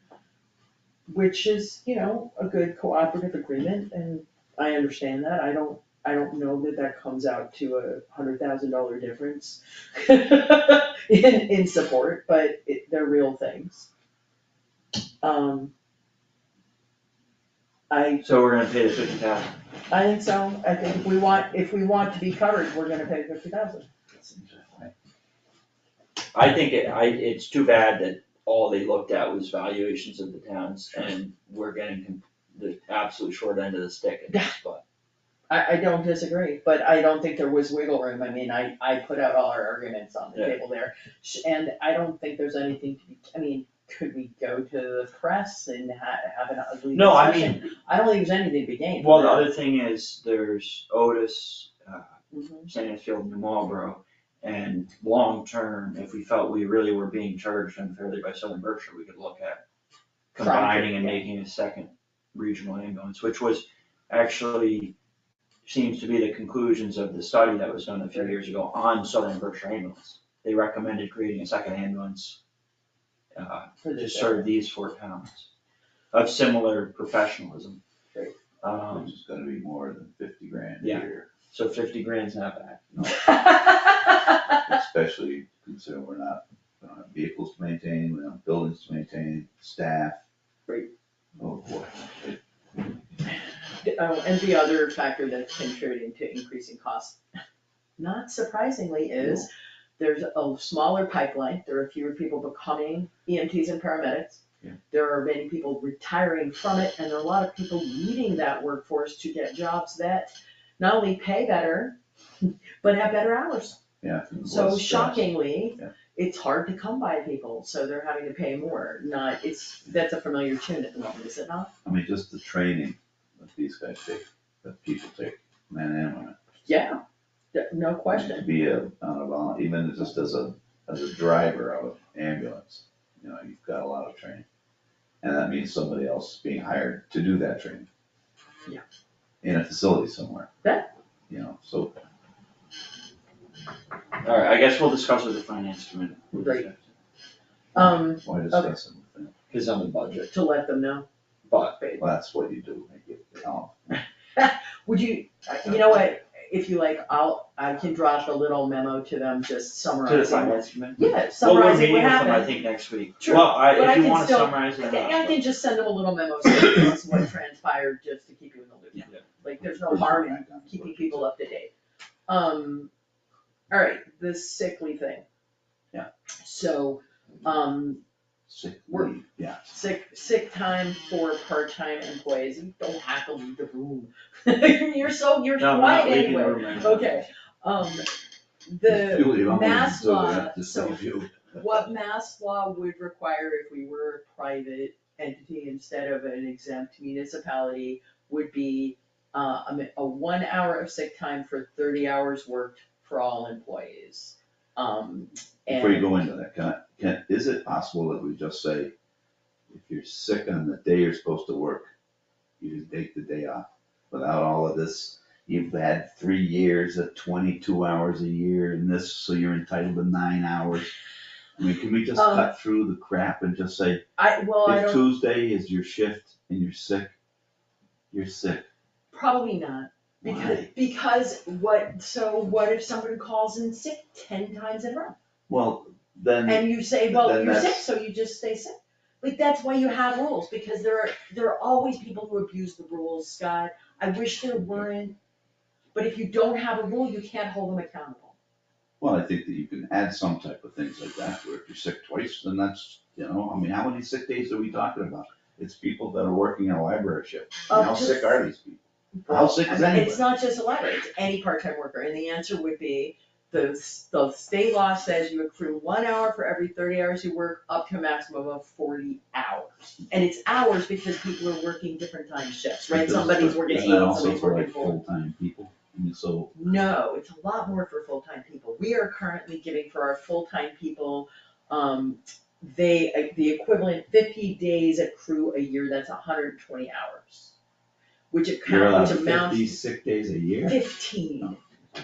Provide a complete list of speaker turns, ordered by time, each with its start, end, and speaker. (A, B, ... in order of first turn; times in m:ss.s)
0:01.1-0:13.9 A
0:15.2-0:15.7 A
0:17.9-0:18.2 A
0:18.2-0:19.5 B
0:19.9-0:23.9 A
0:24.1-0:24.9 C
0:26.3-0:34.8 B
0:35.5-0:49.5 A
0:46.9-0:47.7 B
0:49.0-0:59.6 B
0:52.3-0:52.7 A
1:00.3-1:04.9 B
1:00.4-1:01.2 A
1:05.6-1:12.4 B
1:13.3-1:15.5 B
1:13.8-1:14.5 A
1:16.1-1:17.8 B
1:18.6-1:19.2 B
1:18.9-1:21.3 C
1:20.8-1:22.8 B
1:22.9-1:23.4 C
1:23.1-1:24.5 A
1:24.6-1:30.2 C
1:31.4-1:32.4 C
1:33.8-1:37.2 A
1:38.0-1:53.8 A
1:39.2-1:39.4 C
1:54.0-1:55.9 C
1:54.4-2:01.7 A
2:01.8-2:06.4 C
2:06.7-2:07.0 A
2:07.5-2:08.4 A
2:08.1-2:14.4 C
2:15.2-2:17.9 C
2:19.4-2:20.5 C
2:20.6-2:20.9 A
2:21.3-2:22.0 C
2:24.2-2:26.9 B
2:26.4-2:26.7 A
2:27.7-2:28.7 A
2:27.8-2:29.3 C
2:29.5-2:30.3 B
2:30.3-2:31.0 A
2:31.5-2:31.9 B
2:32.0-2:34.0 C
2:34.4-2:42.6 A
2:40.0-2:45.4 B
2:43.2-2:51.7 A
2:49.6-2:51.2 C
2:52.3-2:52.9 A
2:53.7-2:55.2 A
2:56.4-2:58.0 A
2:58.5-2:59.7 C
2:58.9-2:59.1 A
2:59.7-3:08.1 A
3:05.6-3:07.2 B
3:08.6-3:26.3 A
3:08.8-3:11.6 C
3:25.7-3:28.9 C
3:29.7-3:31.9 C
3:32.6-3:40.9 C
3:41.6-3:44.0 C
3:42.1-3:42.5 A
3:44.2-3:45.0 A
3:44.6-3:47.1 C
3:48.1-3:48.6 C
3:49.1-3:55.2 A
3:50.2-3:50.7 C
3:55.5-3:57.8 C
3:56.4-4:05.2 A
4:05.9-4:08.4 A
4:09.0-4:20.2 C
4:17.7-4:18.4 A
4:19.2-4:35.0 A
4:32.9-4:36.5 C
4:36.5-4:47.5 A
4:48.3-4:49.8 A
4:48.6-4:50.8 C
4:50.6-4:51.6 A